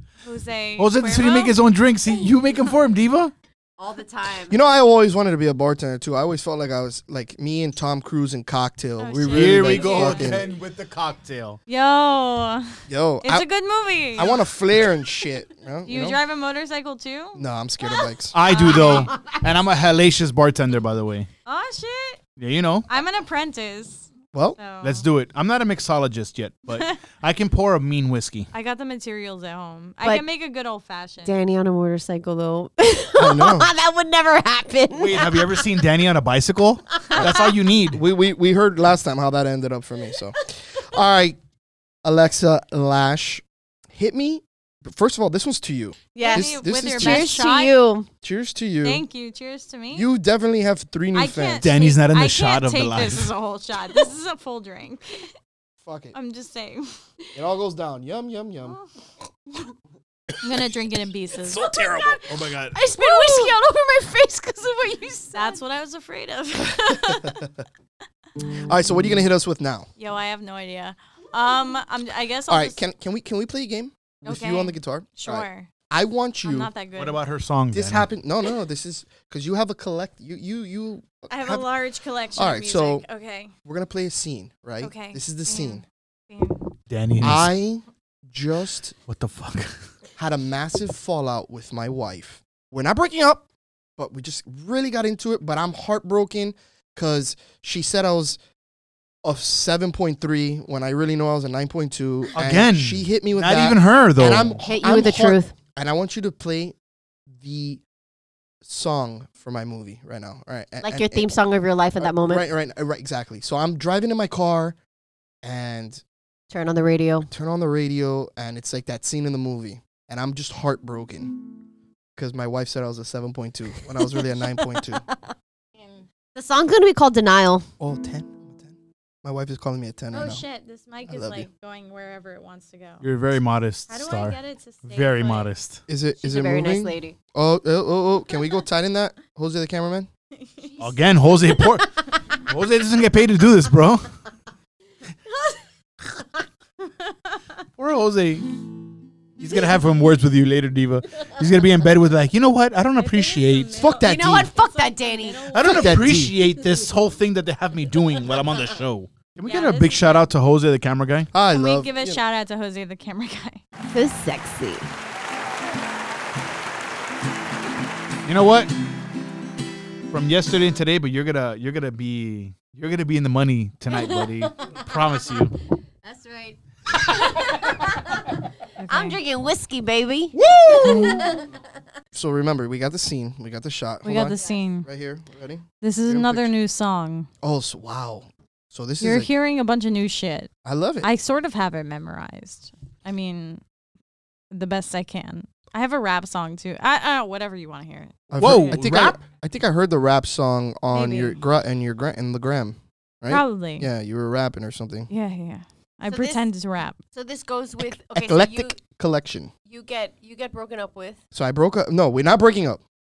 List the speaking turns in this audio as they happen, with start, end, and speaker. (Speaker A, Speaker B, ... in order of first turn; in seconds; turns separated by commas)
Speaker A: 0.2-1.6, Speaker B: 0.8-3.3, Speaker C: 3.8-4.6, Speaker D: 4.5-10.5, Speaker A: 9.0-10.4, Speaker B: 9.3-11.6, Speaker A: 11.7-14.4, Speaker D: 12.9-13.5, Speaker D: 14.1-16.2, Speaker A: 15.8-19.1, Speaker D: 17.3-18.4, Speaker B: 18.3-21.3, Speaker A: 21.4-22.2, Speaker B: 22.4-22.9, Speaker A: 22.9-25.0, Speaker D: 24.3-24.6, Speaker B: 24.8-28.5, Speaker A: 26.7-27.0, Speaker A: 28.5-31.4, Speaker C: 31.2-35.6, Speaker D: 33.1-33.7, Speaker B: 34.9-38.0, Speaker D: 37.1-41.4, Speaker D: 42.0-47.4, Speaker C: 46.1-48.1, Speaker A: 46.2-47.7, Speaker D: 48.2-49.0, Speaker A: 48.8-50.1, Speaker D: 49.9-51.7, Speaker A: 51.1-55.3, Speaker B: 51.6-53.3, Speaker D: 55.8-56.1, Speaker A: 56.1-56.9, Speaker D: 57.3-58.8, Speaker A: 60.4-61.6, Speaker C: 61.5-65.6, Speaker B: 61.5-62.8, Speaker A: 63.0-63.5, Speaker A: 65.3-67.5, Speaker D: 68.7-69.9, Speaker A: 70.0-72.8, Speaker D: 72.5-76.7, Speaker A: 74.2-75.7, Speaker A: 76.4-77.2, Speaker B: 77.0-78.1, Speaker D: 77.7-81.7, Speaker A: 81.3-83.5, Speaker D: 82.3-83.0, Speaker D: 83.6-85.8, Speaker A: 84.8-86.7, Speaker B: 86.9-87.5, Speaker D: 87.2-89.0, Speaker B: 89.1-89.9, Speaker D: 90.2-98.4, Speaker D: 99.2-106.7, Speaker B: 102.3-104.6, Speaker C: 104.6-105.5, Speaker D: 107.3-107.8, Speaker D: 108.6-111.3, Speaker C: 110.8-112.5, Speaker D: 112.0-114.8, Speaker D: 115.4-116.0, Speaker C: 116.5-117.3, Speaker D: 117.3-121.4, Speaker D: 122.2-125.0, Speaker C: 126.3-127.7, Speaker D: 127.8-130.4, Speaker A: 130.1-133.0, Speaker D: 131.1-131.5, Speaker B: 133.0-135.8, Speaker A: 133.9-135.5, Speaker D: 135.9-140.1, Speaker C: 136.2-137.2, Speaker A: 140.3-140.8, Speaker B: 140.8-144.1, Speaker B: 147.8-148.5, Speaker B: 149.4-153.9, Speaker A: 153.0-155.9, Speaker D: 153.7-154.5, Speaker C: 154.0-155.5, Speaker B: 155.5-161.3, Speaker D: 155.6-156.4, Speaker A: 159.4-160.2, Speaker D: 161.3-162.2, Speaker A: 161.5-163.6, Speaker C: 163.9-164.9, Speaker B: 168.2-168.7, Speaker B: 170.1-175.6, Speaker C: 176.0-176.6, Speaker C: 177.1-177.9, Speaker A: 178.8-179.2, Speaker C: 178.9-181.4, Speaker B: 180.3-181.3, Speaker A: 180.8-181.3, Speaker D: 182.1-186.5, Speaker A: 184.0-184.9, Speaker A: 185.8-187.3, Speaker D: 187.4-189.3, Speaker A: 189.0-190.5, Speaker D: 190.6-191.1, Speaker A: 191.0-193.6, Speaker A: 194.5-198.2, Speaker D: 198.3-205.1, Speaker B: 198.4-199.2, Speaker A: 200.9-201.4, Speaker A: 203.3-203.9, Speaker A: 205.1-207.0, Speaker C: 206.1-206.4, Speaker C: 207.1-208.8, Speaker D: 208.1-209.5, Speaker C: 209.6-211.2, Speaker D: 211.3-212.8